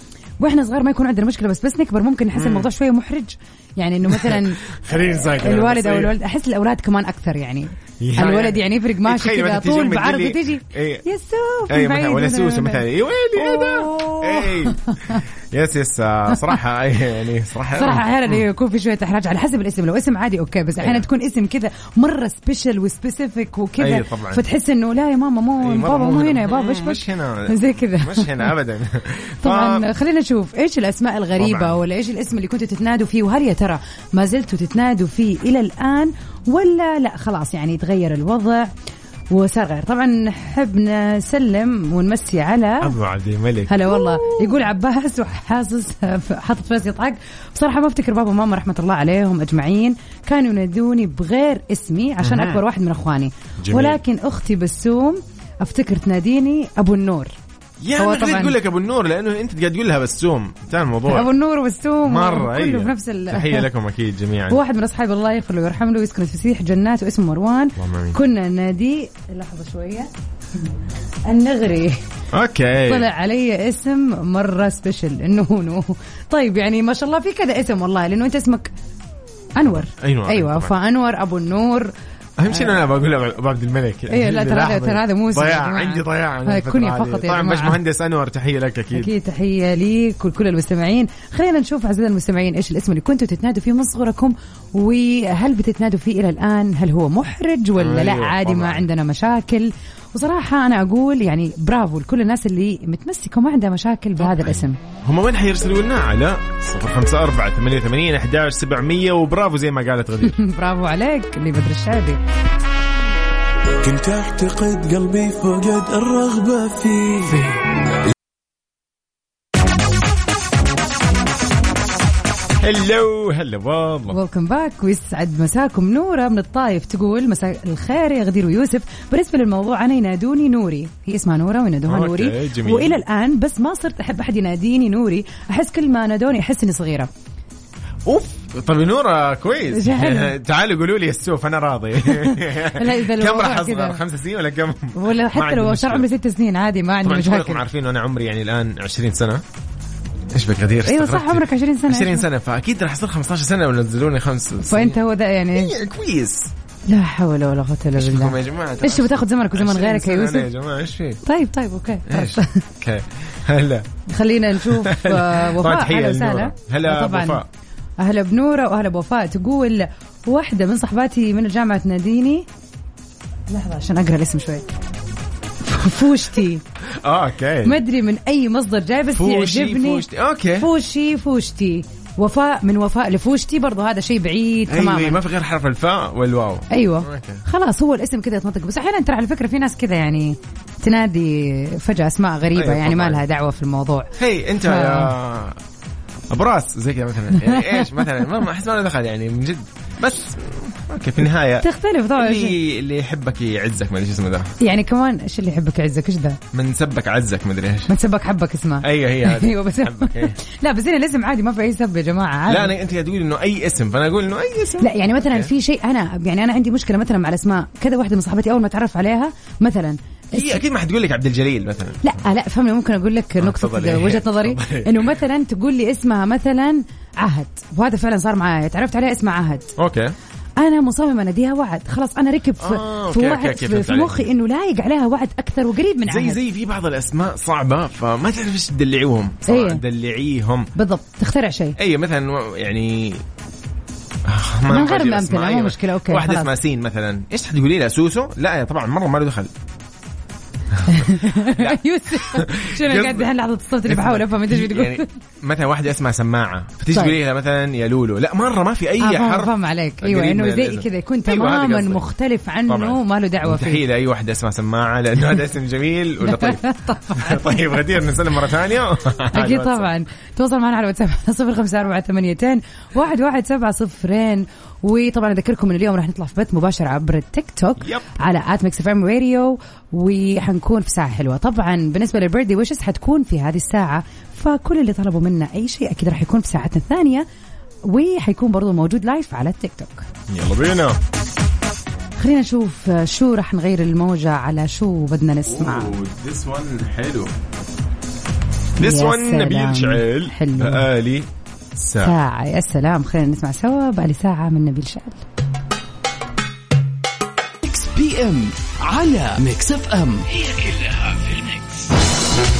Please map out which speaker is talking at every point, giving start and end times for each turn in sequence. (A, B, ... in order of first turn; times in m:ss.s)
0:00.4-0:15.2 A
0:02.3-0:02.7 B
0:04.1-0:06.1 B
0:08.0-0:11.0 B
0:11.7-0:18.4 B
0:17.7-0:28.5 A
0:20.8-0:21.0 B
0:23.8-0:24.4 B
0:25.6-0:29.9 B
0:29.4-0:38.7 A
0:31.4-0:31.8 B
0:39.3-0:42.9 A
0:42.8-0:44.6 B
0:43.7-0:57.3 A
0:52.2-0:52.6 B
0:53.6-0:54.0 B
0:57.8-1:01.3 B
0:58.0-0:58.6 A
1:01.1-1:03.7 A
1:02.0-1:04.6 B
1:04.5-1:10.1 A
1:07.8-1:08.2 B
1:11.2-1:12.0 A
1:12.3-1:13.1 B
1:12.8-1:18.7 A
1:19.6-1:21.9 A
1:19.7-1:20.7 B
1:22.4-1:29.1 B
1:22.5-1:22.8 A
1:24.1-1:27.8 A
1:28.9-1:44.8 A
1:37.8-1:38.9 B
1:44.2-1:50.4 B
1:50.2-1:52.2 A
1:53.8-1:57.4 C
2:02.6-2:04.2 B
2:04.1-2:17.1 A
2:11.8-2:13.0 B
2:18.0-2:26.1 B
2:19.7-2:20.3 A
2:22.1-2:24.0 A
2:24.9-2:27.6 A
2:27.0-2:29.4 B
2:30.3-2:35.0 B
2:30.8-2:32.3 A
2:34.6-2:35.8 A
2:35.5-2:36.5 B
2:36.9-2:40.5 A
2:38.0-2:41.2 B
2:41.2-2:42.6 A
2:42.1-2:43.9 B
2:44.1-2:47.4 A
2:44.6-2:47.5 B
2:48.0-2:52.4 A
2:53.5-2:54.7 A
2:55.6-2:56.6 A
2:56.9-2:57.8 B
2:57.6-3:00.0 A
2:59.1-3:00.7 B
3:00.6-3:05.2 A
3:04.7-3:07.4 B
3:06.7-3:14.1 A
3:12.5-3:13.2 B
3:14.2-3:15.6 B
3:14.6-3:15.1 A
3:16.3-3:24.5 B
3:17.4-3:18.0 A
3:21.6-3:22.6 A
3:24.6-3:26.4 A
3:26.5-3:27.9 B
3:27.9-3:32.7 A
3:28.8-3:30.4 B
3:32.5-3:35.5 B
3:34.8-3:40.6 A
3:40.3-3:42.1 B
3:42.0-3:49.7 A
3:43.4-3:45.2 B
3:49.8-3:50.1 B
3:50.6-3:56.4 A
3:52.6-3:54.3 B
3:56.0-4:00.7 B
3:59.5-3:59.8 A
4:00.8-4:01.8 A
4:01.8-4:03.2 B
4:04.2-4:09.5 B
4:04.7-4:06.5 A
4:10.7-4:13.3 B
4:10.9-4:15.1 A
4:13.8-4:22.0 B
4:16.9-4:17.2 A
4:19.0-4:23.8 A
4:22.7-4:26.6 B
4:26.2-4:27.7 A
4:27.1-4:29.9 B
4:29.3-4:47.2 A
4:37.8-4:38.1 B
4:47.8-4:50.0 A
4:50.3-4:51.0 B
4:52.2-4:55.9 A
4:55.4-4:57.4 B
4:58.8-5:02.2 B
4:58.8-5:00.9 A
5:02.0-5:05.2 A
5:07.6-5:11.9 D